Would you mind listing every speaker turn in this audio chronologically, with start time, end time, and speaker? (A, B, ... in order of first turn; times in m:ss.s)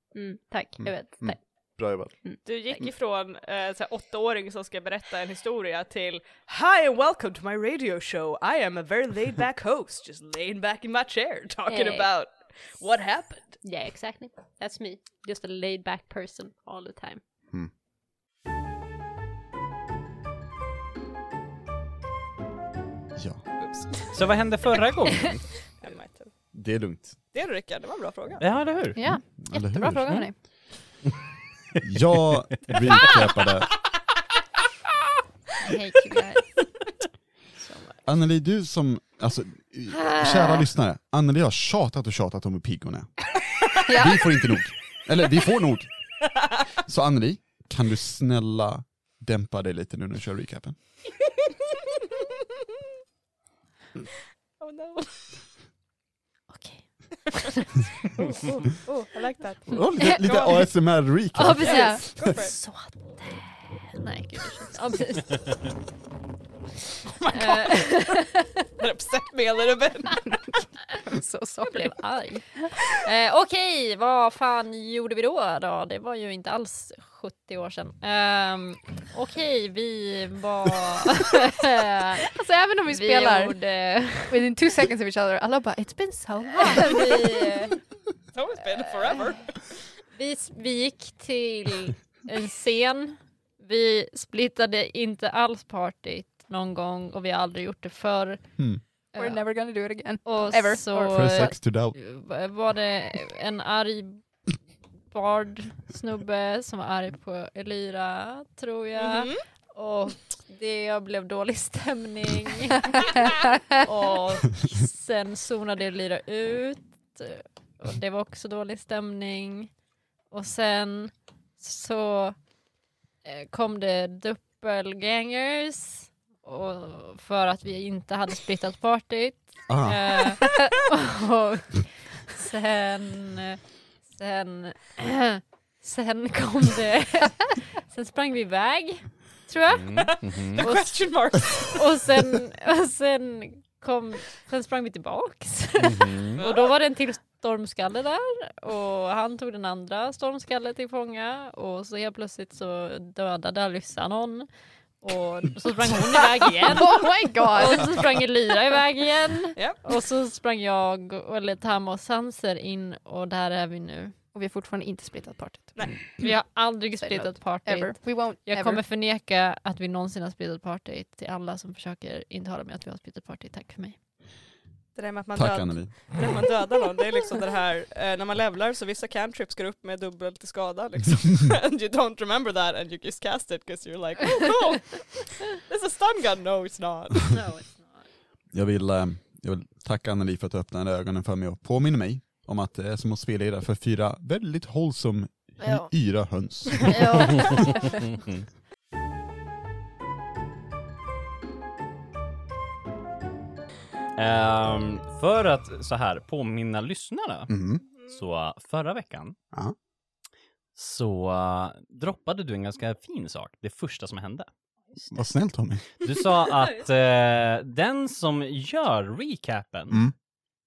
0:00.2-0:01.4 A
0:00.8-0:02.2 B
0:02.4-0:13.6 C
0:11.7-0:12.1 A
0:13.6-0:17.2 A
0:23.2-0:23.4 B
0:23.6-0:24.2 C
0:24.1-0:25.4 D
0:25.8-0:26.3 C
0:26.5-0:27.2 B
0:27.3-0:28.4 C
0:28.4-0:29.0 D
0:29.0-0:30.4 E
0:29.1-0:30.2 B
0:31.8-0:33.7 B
0:35.6-0:36.6 A
0:37.6-0:38.0 A
0:38.1-0:45.9 B
0:39.9-0:40.6 A
0:43.9-0:44.2 E
0:46.8-0:50.8 B
0:54.6-0:55.2 C
0:56.5-0:57.7 A
0:58.2-1:00.7 C
0:59.7-1:01.8 B
1:00.0-1:00.3 A
1:01.3-1:05.6 A
1:01.6-1:02.6 C
1:01.7-1:02.0 E
1:07.2-1:07.5 C
1:07.3-1:08.5 A
1:08.8-1:10.2 C
1:11.0-1:12.0 E
1:11.7-1:24.5 A
1:22.3-1:23.6 E
1:24.3-1:27.4 E
1:26.6-1:27.8 A
1:28.3-1:29.5 C
1:28.8-1:29.3 A
1:30.1-1:38.5 A
1:39.2-1:39.4 A
1:39.2-1:41.5 E
1:40.2-1:44.2 A
1:41.1-1:42.0 B
1:45.1-1:59.7 A
1:49.0-1:49.4 C
2:00.3-2:02.4 A
2:03.2-2:34.5 A
2:09.7-2:10.3 B
2:19.7-2:20.6 D
2:20.5-2:21.8 C
2:25.8-2:26.2 B
2:26.0-2:26.4 D
2:26.4-2:26.7 C
2:35.0-2:44.2 A
2:36.6-2:38.0 E
2:39.6-2:39.8 C
2:44.3-2:46.1 E
2:46.2-2:54.0 A
2:47.0-2:48.8 E
2:55.0-3:07.4 C
2:55.4-2:55.9 B
3:07.2-3:08.1 A
3:08.5-3:17.5 B
3:16.9-3:17.7 A
3:24.2-3:29.4 D
3:27.5-3:27.8 B
3:30.8-3:34.5 D
3:35.1-3:35.9 B
3:36.0-3:40.0 D